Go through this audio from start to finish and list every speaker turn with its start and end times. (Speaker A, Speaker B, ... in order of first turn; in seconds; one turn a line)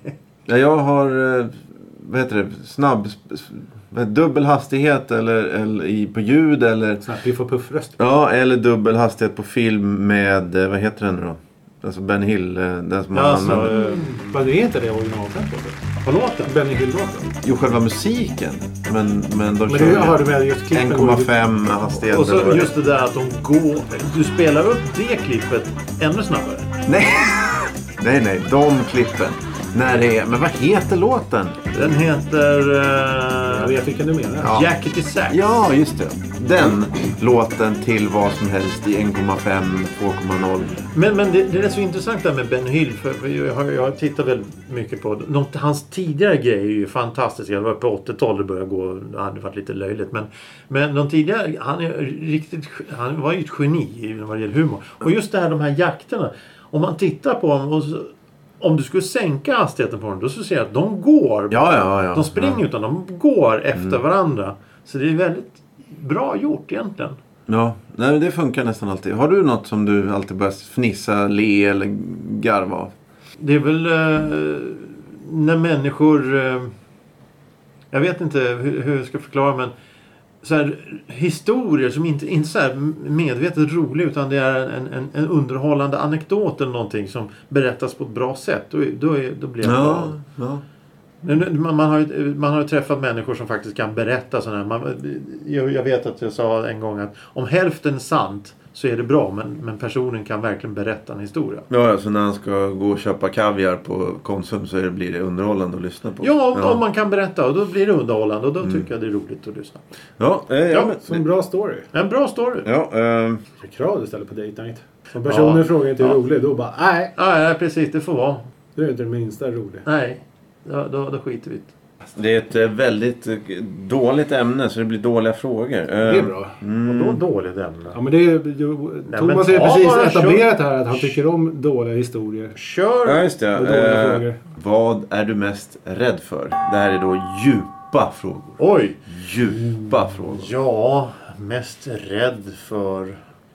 Speaker A: 0.5-7.0
Speaker B: 7.0-8.0
Speaker A: 8.0-13.7
Speaker C: 13.1-14.4
Speaker B: 13.4-17.3
Speaker C: 16.1-16.5
Speaker A: 17.4-22.7
Speaker B: 19.7-21.4
Speaker C: 22.0-26.8
Speaker A: 26.9-31.6
Speaker C: 31.7-33.7
Speaker B: 33.5-34.6
Speaker A: 34.4-34.7
Speaker C: 34.4-35.7
Speaker A: 35.3-40.8
Speaker C: 40.9-67.2
Speaker A: 61.5-62.6
Speaker A: 67.5-72.9
Speaker C: 73.4-76.7
Speaker C: 77.9-79.7
Speaker C: 80.4-90.2
Speaker A: 89.6-90.6
Speaker C: 91.2-101.7
Speaker A: 101.7-106.8
Speaker C: 106.2-109.8
Speaker A: 110.2-111.2
Speaker B: 111.0-111.9
Speaker C: 111.9-112.7
Speaker A: 112.7-113.4
Speaker B: 113.6-117.1
Speaker C: 115.3-116.2
Speaker C: 117.2-118.5
Speaker B: 118.8-119.8
Speaker C: 119.9-121.7
Speaker A: 122.2-127.2
Speaker B: 126.0-126.6
Speaker C: 126.8-128.0
Speaker B: 127.9-132.6
Speaker C: 129.1-131.1
Speaker C: 132.6-133.3
Speaker A: 133.1-140.5
Speaker B: 133.6-134.4
Speaker C: 138.6-143.2